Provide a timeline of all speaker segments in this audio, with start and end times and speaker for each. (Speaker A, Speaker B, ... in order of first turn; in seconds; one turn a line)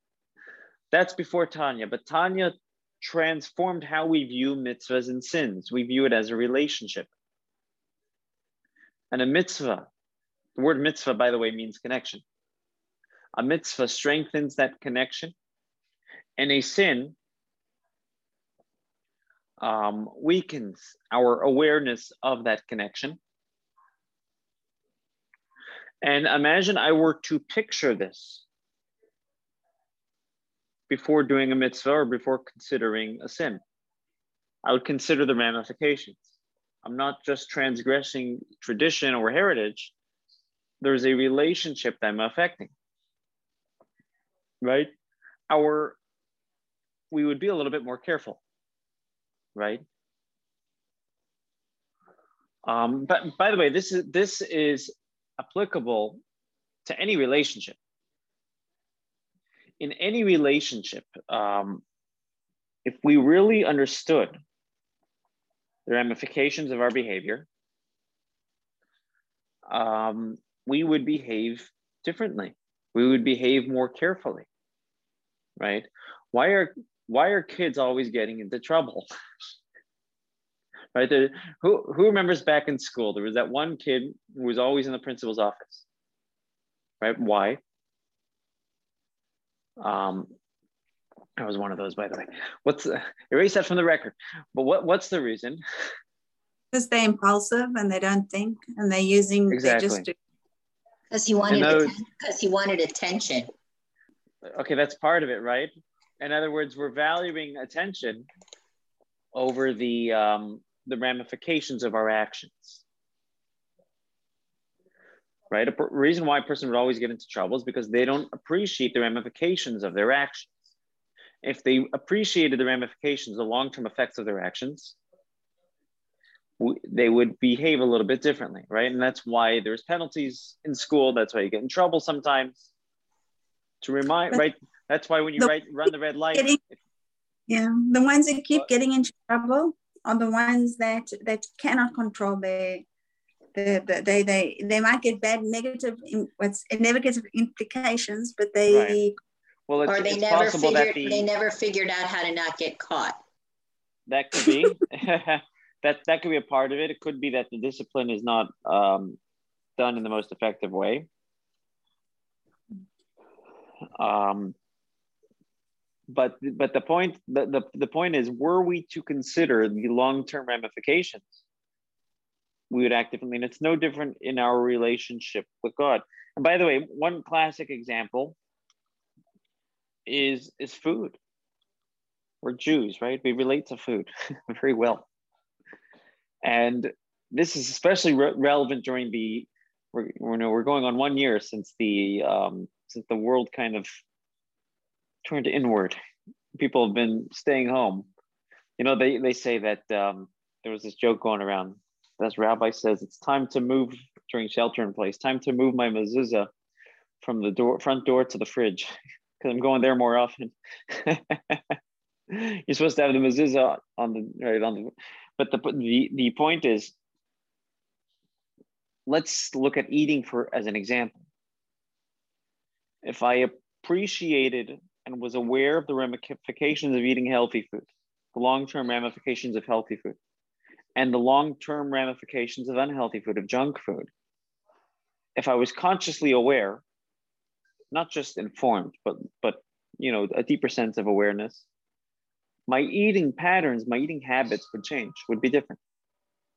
Speaker A: 0.9-7.1
Speaker A: 9.1-9.9
Speaker A: 10.6-12.2
Speaker A: 13.3-15.3
Speaker A: 16.4-17.2
Speaker A: 19.6-23.2
Speaker A: 26.0-28.4
Speaker A: 30.9-33.6
Speaker A: 34.6-39.9
Speaker A: 40.8-42.7
Speaker A: 44.6-44.9
Speaker A: 45.5-46.0
Speaker A: 47.1-48.4
Speaker A: 49.5-49.8
Speaker A: 52.6-56.2
Speaker A: 56.9-57.8
Speaker A: 59.8-61.8
Speaker A: 62.9-64.4
Speaker A: 65.9-67.5
Speaker A: 69.7-74.5
Speaker A: 75.6-79.1
Speaker A: 80.9-85.8
Speaker A: 87.0-87.6
Speaker A: 89.8-90.3
Speaker A: 91.4-95.6
Speaker B: 96.7-100.1
Speaker A: 99.5-100.1
Speaker C: 101.1-103.5
Speaker A: 101.5-101.9
Speaker B: 101.6-101.8
Speaker A: 104.5-108.3
Speaker A: 109.3-112.8
Speaker A: 115.5-120.6
Speaker A: 121.4-125.0
Speaker A: 126.6-132.7
Speaker A: 133.8-136.8
Speaker B: 137.5-142.9
Speaker B: 143.6-149.2
Speaker A: 148.7-149.0
Speaker A: 149.7-151.3
Speaker C: 149.8-153.2
Speaker A: 154.1-159.2
Speaker A: 159.8-161.1
Speaker A: 164.0-164.6
Speaker A: 166.1-171.4
Speaker A: 172.7-178.4
Speaker A: 180.1-181.2
Speaker A: 182.4-185.1
Speaker A: 186.4-193.9
Speaker A: 195.2-196.0
Speaker A: 196.6-198.1
Speaker A: 198.8-206.5
Speaker A: 207.2-211.8
Speaker A: 212.3-216.9
Speaker A: 219.1-221.2
Speaker A: 223.0-230.2
Speaker A: 231.0-234.1
Speaker A: 235.4-236.8
Speaker A: 237.9-241.7
Speaker A: 242.7-245.8